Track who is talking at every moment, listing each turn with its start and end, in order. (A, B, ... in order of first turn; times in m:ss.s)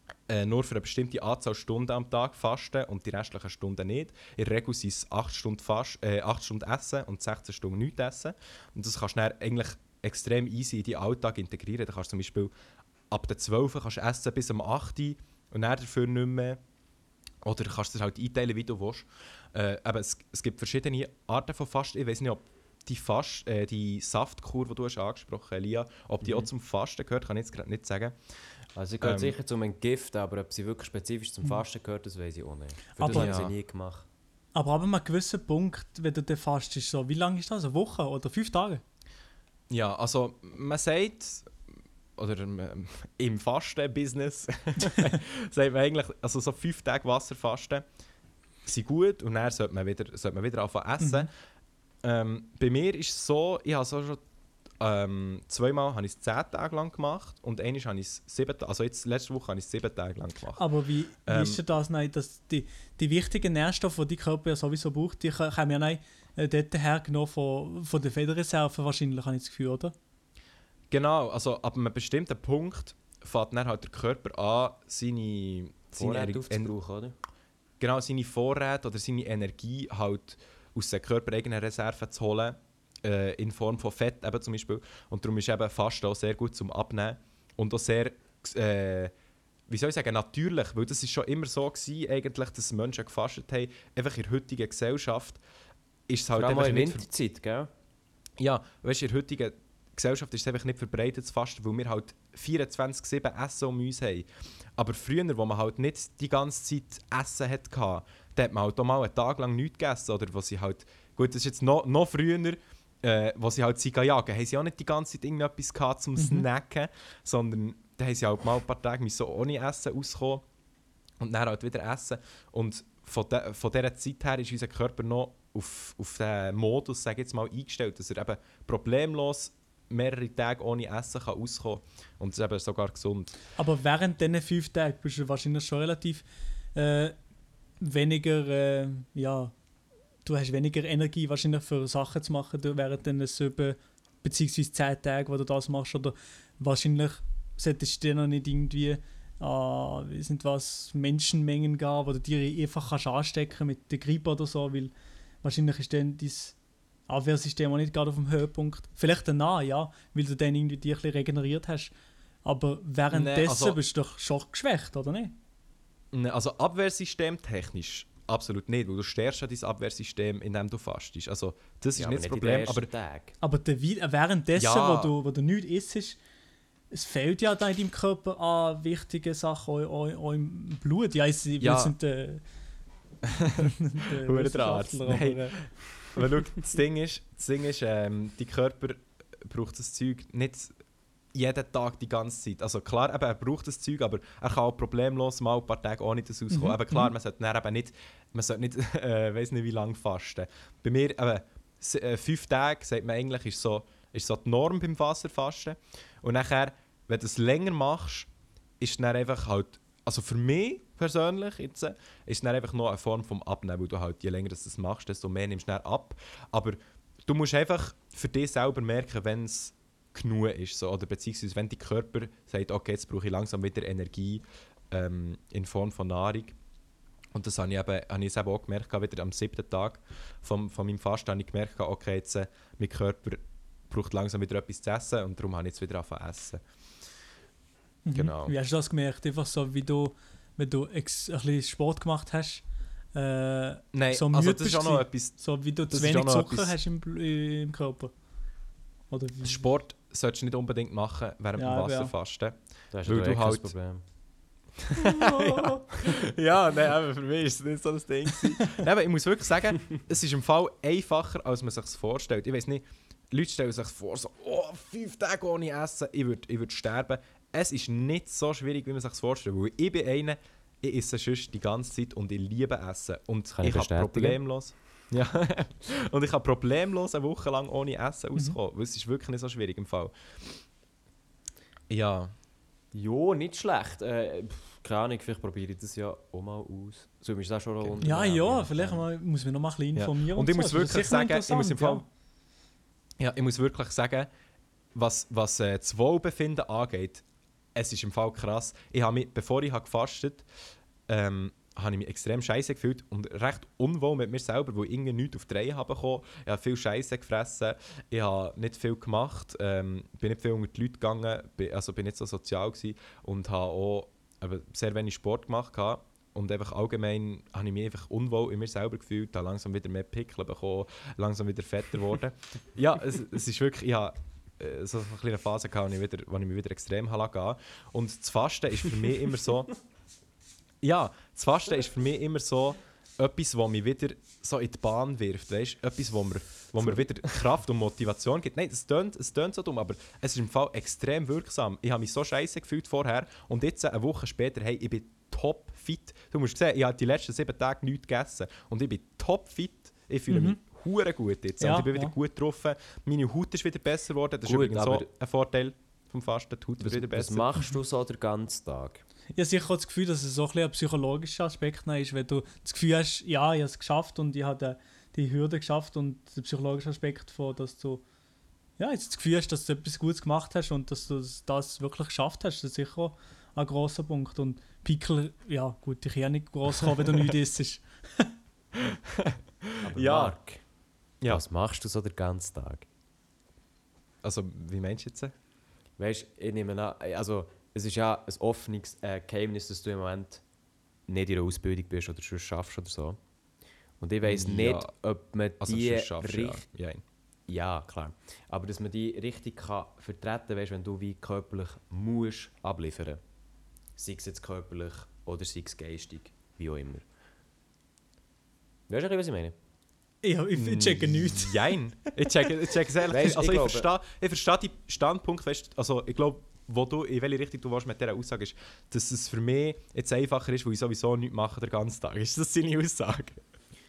0:00.3-0:12.5 A
0:13.1-0:16.6 A
0:17.4-0:28.2 A
0:26.2-0:26.5 B
0:28.8-0:34.0 B
0:29.0-0:29.4 A
0:33.0-0:33.4 C
0:33.0-0:33.5 A
0:34.5-0:38.8 C
0:39.7-0:41.5 A
0:42.2-0:47.8 A
0:48.6-0:51.3 A
0:51.0-0:51.3 C
0:52.0-0:54.2 A
0:54.8-1:00.6 A
1:00.6-1:09.9 C
1:01.2-1:01.6 A
1:10.9-1:16.7 A
1:15.9-1:17.1 B
1:17.8-1:29.1 A
1:29.7-1:35.4 A
1:36.1-1:37.0 A
1:36.3-1:37.7 B
1:38.4-2:00.4 A
1:56.2-1:56.4 C
2:01.2-2:13.3 A
2:13.6-2:17.1 C
2:17.8-2:19.5 C
2:20.2-2:34.9 C
2:35.4-2:36.6 C
2:37.1-2:41.9 C
2:42.4-2:45.3 C
2:43.1-2:43.8 A
2:46.1-2:52.9 A
2:52.0-2:53.3 B
2:53.4-2:56.2 C
2:54.6-2:55.1 A
2:56.9-3:02.4 C
3:01.6-3:01.9 A
3:03.2-3:10.7 A
3:03.6-3:05.7 C
3:11.3-3:28.3 A
3:16.5-3:17.1 C
3:28.8-3:46.6 A
3:47.3-3:56.6 A
3:58.0-4:02.6 C
3:58.1-3:58.5 A
4:03.1-4:08.1 C
4:03.9-4:05.4 A
4:05.9-4:06.8 A
4:09.1-4:09.6 C
4:09.4-4:13.7 A
4:11.6-4:12.1 C
4:12.9-4:14.0 B
4:14.9-4:40.1 A
4:33.5-4:34.4 B
4:41.9-4:42.3 A
4:42.9-4:49.0 B
4:48.0-4:52.0 C
4:50.0-4:52.0 A
4:53.2-4:54.3 A
4:54.9-4:57.2 A
4:57.7-5:00.4 A
5:01.1-5:29.7 A
5:30.8-5:57.5 A
5:50.3-5:50.6 C
5:51.6-5:52.1 C
5:54.4-5:55.1 B
5:56.8-5:59.0 B
5:59.3-6:08.0 C
6:08.8-6:18.3 C
6:18.7-6:20.4 A
6:19.8-6:20.6 B
6:21.2-6:22.9 B
6:24.2-6:25.3 A
6:26.0-6:30.4 B
6:31.1-6:33.2 B
6:34.0-6:36.6 B
6:34.2-6:34.9 A
6:35.6-6:37.0 A
6:37.5-6:43.2 B
6:44.0-6:47.0 B
6:48.9-6:49.5 B
6:50.2-6:52.5 C
6:50.5-7:03.4 A
6:53.1-6:53.9 B